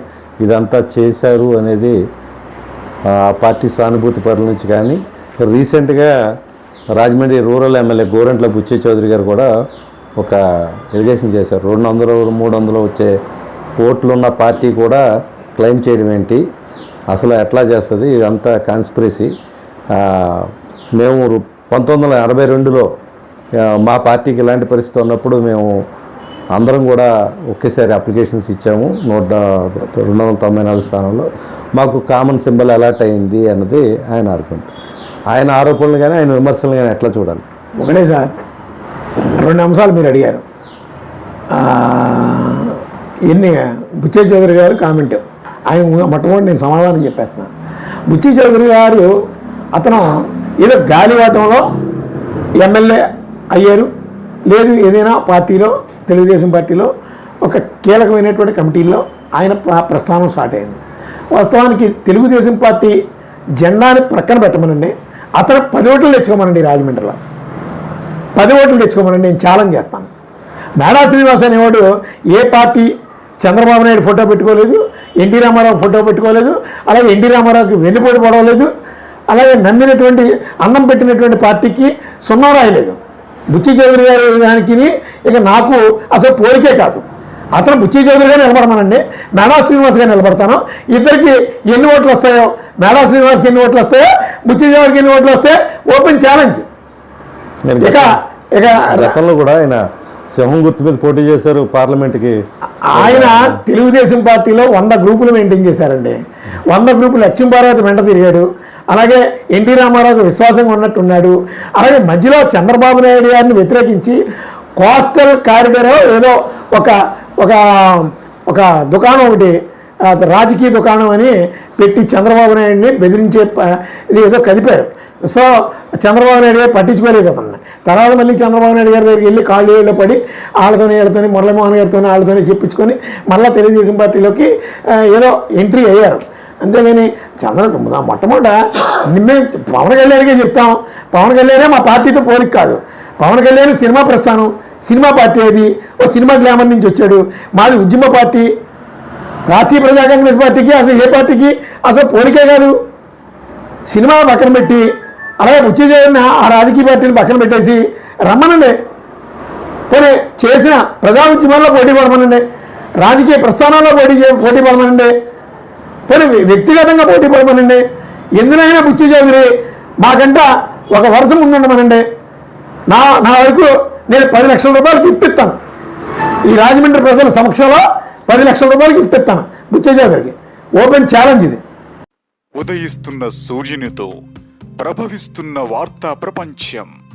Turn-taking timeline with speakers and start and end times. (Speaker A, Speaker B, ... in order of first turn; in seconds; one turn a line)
Speaker A: 0.4-1.9
Speaker A: 3.1-6.1
Speaker A: 7.0-9.5
Speaker A: 10.9-13.1
Speaker A: 13.8-15.0
Speaker A: 15.6-16.4
Speaker A: 17.1-19.3
Speaker A: 20.0-22.9
Speaker A: 23.8-25.7
Speaker A: 26.6-34.7
Speaker A: 35.3-37.5
Speaker B: 37.8-38.3
Speaker B: 39.4-40.4
Speaker B: 41.5-47.5
Speaker B: 48.1-49.1
Speaker B: 49.7-51.7
Speaker B: 52.6-53.9
Speaker B: 54.5-56.9
Speaker B: 57.4-60.8
Speaker B: 61.3-63.0
Speaker B: 63.6-67.2
Speaker B: 68.4-70.1
Speaker B: 70.8-72.9
Speaker B: 73.4-78.7
Speaker B: 79.3-83.0
Speaker B: 83.5-87.0
Speaker B: 87.5-96.7
Speaker A: 97.7-98.1
Speaker B: 97.8-99.2
Speaker A: 98.9-99.8
Speaker A: 100.3-102.4
Speaker B: 102.9-106.2
Speaker A: 102.9-103.5
Speaker B: 106.7-114.2
Speaker B: 114.8-148.5
Speaker B: 149.5-152.8
Speaker B: 153.9-158.8
Speaker B: 159.9-162.4
Speaker B: 163.0-165.1
Speaker B: 166.1-167.8
Speaker B: 168.4-172.0
Speaker B: 172.9-175.6
Speaker B: 176.5-181.6
Speaker C: 182.6-184.1
Speaker C: 184.8-186.9